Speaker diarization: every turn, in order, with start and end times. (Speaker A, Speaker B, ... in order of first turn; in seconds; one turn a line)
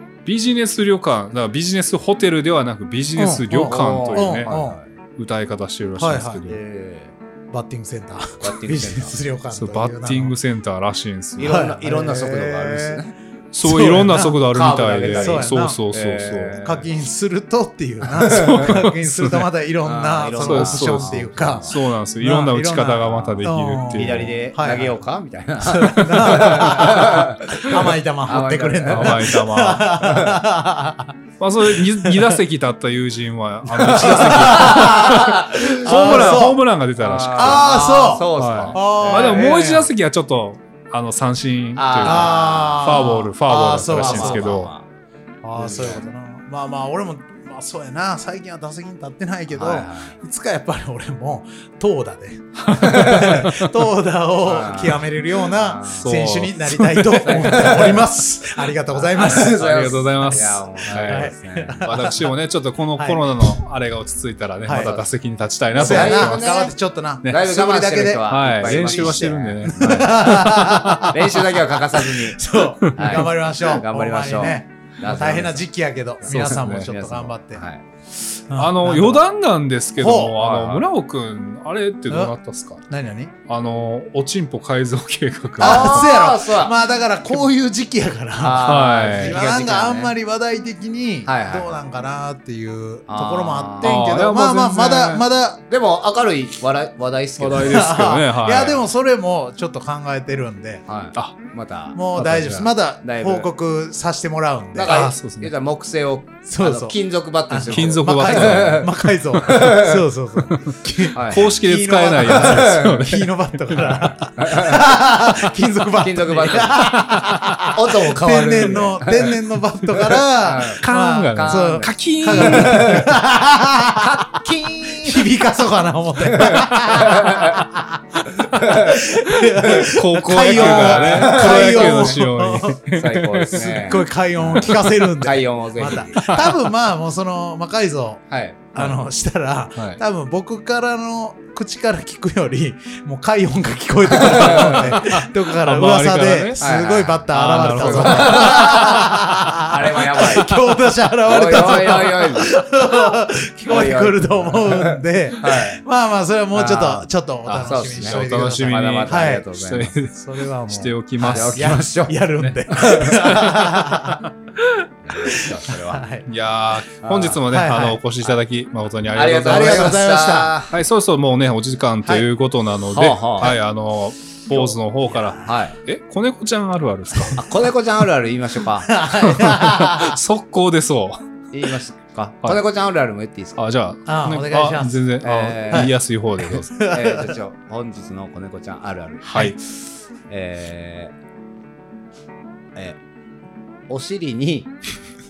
Speaker A: 0.3-4.6
Speaker B: 3.2-4.8
Speaker C: 3.6-4.9
Speaker A: 5.2-6.6
Speaker B: 6.0-6.5
Speaker C: 6.4-7.2
Speaker B: 7.5-10.3
Speaker C: 8.4-9.2
Speaker A: 9.5-11.6
Speaker C: 11.4-13.2
Speaker B: 11.4-13.0
Speaker A: 13.5-16.9
Speaker B: 13.6-14.4
Speaker C: 14.3-16.8
Speaker B: 15.1-15.8
Speaker B: 16.6-25.0
Speaker A: 18.2-19.5
Speaker C: 19.8-21.8
Speaker A: 20.4-24.4
Speaker C: 23.1-30.4
Speaker B: 25.6-31.1
Speaker A: 26.9-27.1
Speaker A: 28.9-29.9
Speaker A: 31.4-37.7
Speaker B: 31.7-32.4
Speaker B: 33.7-36.6
Speaker C: 33.8-39.6
Speaker B: 37.3-39.9
Speaker A: 38.3-44.7
Speaker C: 41.8-43.1
Speaker B: 42.0-44.6
Speaker C: 43.9-44.9
Speaker B: 45.4-59.6
Speaker C: 45.5-46.0
Speaker C: 49.5-50.2
Speaker A: 52.6-53.7
Speaker C: 52.9-53.3
Speaker C: 54.4-56.1
Speaker A: 56.0-57.7
Speaker C: 57.2-58.1
Speaker C: 58.6-61.9
Speaker A: 59.3-61.3
Speaker B: 60.3-62.3
Speaker A: 61.8-66.6
Speaker B: 63.0-63.6
Speaker B: 64.7-65.0
Speaker C: 64.8-65.1
Speaker B: 65.7-77.7
Speaker C: 65.8-66.8
Speaker C: 67.3-75.7
Speaker A: 68.2-71.0
Speaker A: 72.9-73.3
Speaker C: 76.2-77.8
Speaker A: 76.3-76.9
Speaker B: 78.5-79.2
Speaker A: 78.5-82.8
Speaker B: 80.0-80.4
Speaker C: 80.4-80.8
Speaker B: 82.1-82.3
Speaker B: 82.9-83.3
Speaker A: 83.5-86.1
Speaker B: 85.6-95.6
Speaker C: 85.6-86.8
Speaker C: 88.4-90.1
Speaker A: 88.6-89.4
Speaker C: 91.3-91.8
Speaker C: 93.1-94.1
Speaker A: 93.8-95.3
Speaker C: 95.7-98.0
Speaker A: 97.4-98.8
Speaker B: 97.6-100.8
Speaker C: 100.9-102.0
Speaker B: 101.9-105.0
Speaker A: 102.2-102.7
Speaker C: 103.0-103.5
Speaker C: 104.8-108.9
Speaker A: 104.9-105.5
Speaker B: 106.5-124.4
Speaker A: 107.7-109.7
Speaker C: 109.4-110.0
Speaker A: 110.5-114.1
Speaker C: 111.2-111.5
Speaker C: 112.3-113.0
Speaker C: 114.4-114.9
Speaker C: 116.0-117.0
Speaker A: 116.8-117.7
Speaker C: 117.7-119.3
Speaker C: 120.4-123.1
Speaker A: 120.8-123.2
Speaker C: 124.0-125.3
Speaker B: 125.0-132.9
Speaker C: 126.3-127.7
Speaker C: 128.4-129.1
Speaker A: 129.4-133.8
Speaker C: 130.4-132.2
Speaker C: 132.9-136.4
Speaker B: 133.5-138.2
Speaker A: 134.6-134.9
Speaker A: 136.2-136.5
Speaker C: 138.3-138.7
Speaker B: 138.7-159.5
Speaker A: 139.8-140.0
Speaker C: 144.3-144.9
Speaker A: 144.3-146.7
Speaker C: 146.6-150.6
Speaker A: 147.3-148.8
Speaker C: 151.2-152.6
Speaker C: 153.7-155.8
Speaker C: 156.5-159.9
Speaker A: 157.5-160.2
Speaker B: 160.1-164.3
Speaker A: 160.7-164.9
Speaker C: 161.2-163.2
Speaker C: 165.1-166.1
Speaker B: 165.2-166.3
Speaker A: 166.3-170.0
Speaker C: 167.0-167.4
Speaker B: 167.5-168.0
Speaker C: 169.1-170.7
Speaker B: 169.4-170.5
Speaker A: 170.7-177.4
Speaker C: 172.9-173.6
Speaker C: 174.5-175.8
Speaker C: 177.4-179.0
Speaker B: 178.8-180.2
Speaker A: 179.2-181.3
Speaker C: 181.5-183.6
Speaker A: 183.6-186.7
Speaker B: 184.1-185.0
Speaker C: 185.2-185.9
Speaker B: 186.5-187.3
Speaker C: 186.8-189.5
Speaker A: 189.2-189.6
Speaker C: 190.3-191.1
Speaker C: 193.9-194.7